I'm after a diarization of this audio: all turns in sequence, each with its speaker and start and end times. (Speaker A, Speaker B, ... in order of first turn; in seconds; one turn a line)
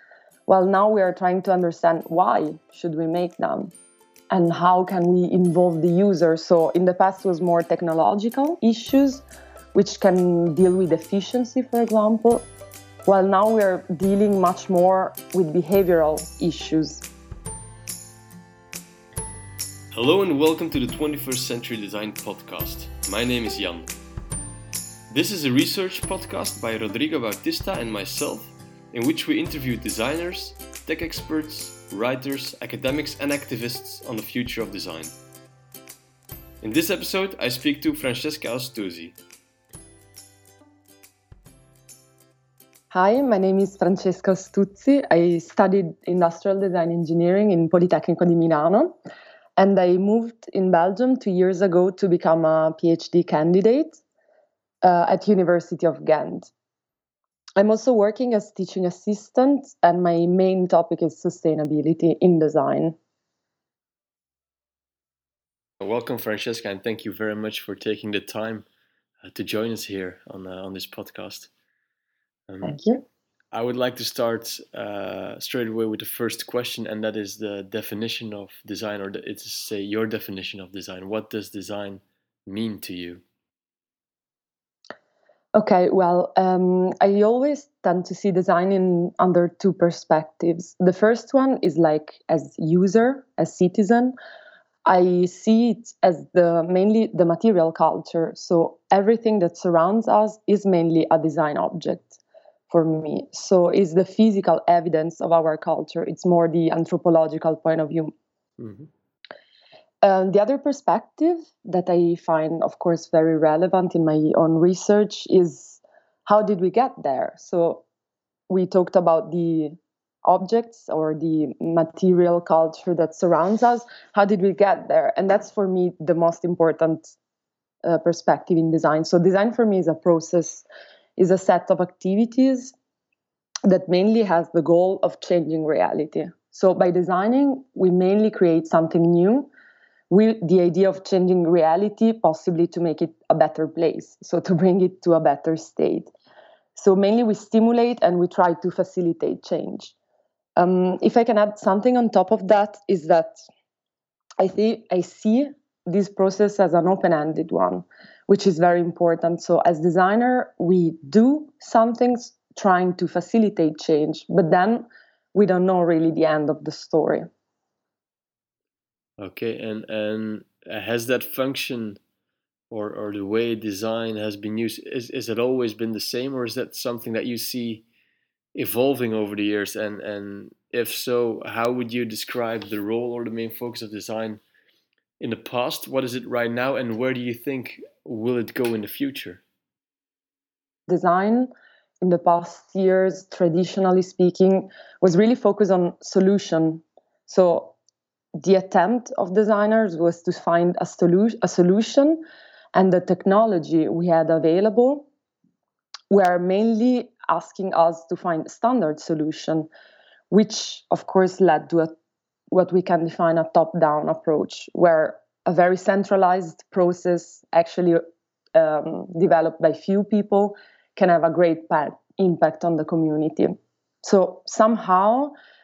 Speaker A: 0.5-3.7
Speaker A: 4.3-9.2
Speaker A: 9.7-12.5
Speaker A: 13.1-17.1
Speaker B: 19.9-23.9
Speaker B: 25.1-35.1
Speaker B: 36.6-39.2
Speaker A: 42.9-48.9
Speaker A: 49.6-54.0
Speaker A: 54.8-56.5
Speaker A: 57.6-63.0
Speaker B: 65.8-68.7
Speaker B: 69.2-71.5
Speaker B: 72.5-72.8
Speaker A: 72.6-73.0
Speaker B: 73.5-83.2
Speaker A: 85.5-94.1
Speaker A: 94.8-108.1
Speaker B: 108.6-108.9
Speaker A: 110.0-117.8
Speaker A: 118.5-127.1
Speaker A: 127.8-130.7
Speaker A: 131.2-132.8
Speaker A: 133.7-139.5
Speaker A: 140.1-146.1
Speaker A: 146.8-149.9
Speaker A: 150.6-153.4
Speaker A: 154.4-167.3
Speaker B: 169.2-172.0
Speaker B: 172.7-177.8
Speaker B: 178.6-184.4
Speaker B: 185.2-189.4
Speaker A: 190.9-191.5
Speaker A: 192.0-197.8
Speaker A: 198.4-202.2
Speaker A: 202.7-205.1
Speaker A: 206.1-209.7
Speaker A: 210.3-211.9
Speaker A: 212.5-218.0
Speaker A: 218.6-225.3